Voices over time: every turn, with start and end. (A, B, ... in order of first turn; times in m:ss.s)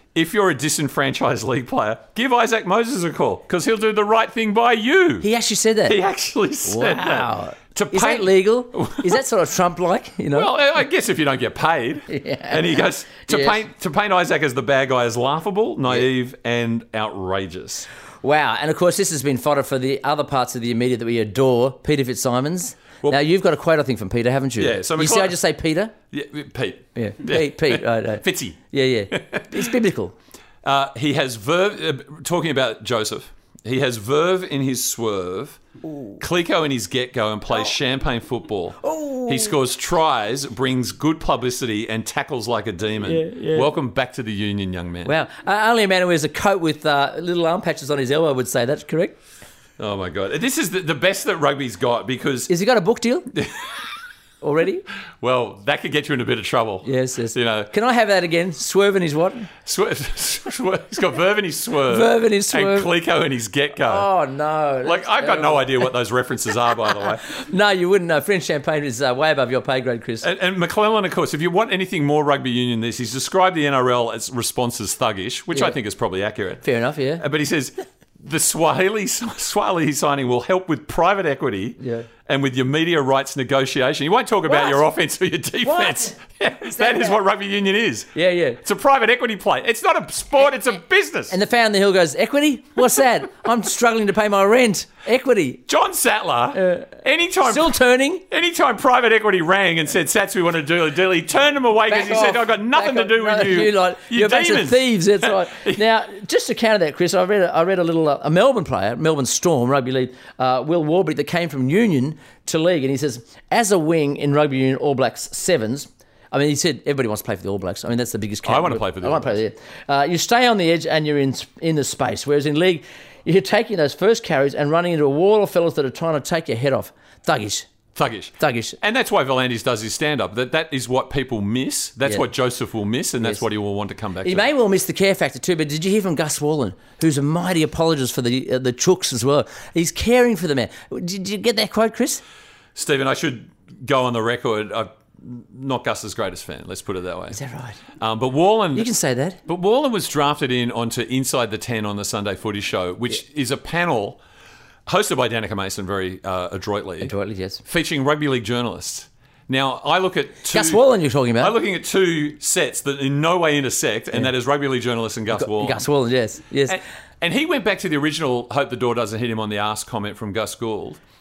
0:00.2-0:05.3 A
0:05.2-0:06.0 B
0:05.9-0:09.2 A
0:06.7-0:10.5 B
0:10.3-0:17.9 A
0:12.1-0:13.6 B
0:18.2-0:25.9 B
0:24.6-0:25.4 A
0:26.1-0:28.6 A
0:27.0-0:30.1 B
0:29.1-0:29.7 A
0:30.6-0:35.6 A
0:35.8-0:36.2 B
0:36.2-0:45.1 A
0:38.8-0:39.6 B
0:43.0-0:43.7 B
0:45.1-0:49.2 B
0:49.8-0:52.5 A
0:52.5-0:53.3 B
0:53.3-0:53.6 A
0:54.4-0:54.8 B
0:55.2-0:57.7 A
0:56.8-0:59.5 B
0:59.6-1:04.1 A
1:01.9-1:02.9 B
1:03.8-1:05.9 B
1:04.8-1:07.2 A
1:07.2-1:10.3 B
1:10.2-1:16.6 A
1:16.6-1:17.2 B
1:17.2-1:31.4 A
1:21.8-1:22.1 B
1:24.5-1:24.8 B
1:25.6-1:26.2 B
1:26.7-1:27.2 B
1:28.2-1:28.6 B
1:31.3-1:35.6 B
1:35.7-1:45.8 A
1:36.6-1:36.9 B
1:37.4-1:38.2 B
1:41.9-2:07.7 B
1:58.4-1:59.4 A
2:08.0-2:14.5 A
2:08.4-2:08.8 B
2:14.2-2:22.2 B
2:22.8-2:27.4 A
2:27.3-2:27.8 B
2:28.0-2:28.9 A
2:28.8-2:29.4 B
2:29.5-2:34.2 A
2:34.9-2:37.1 A
2:37.0-2:37.6 B
2:37.6-2:40.9 A
2:40.5-2:41.5 B
2:41.4-2:45.8 A
2:45.3-2:46.8 B
2:46.7-2:51.0 A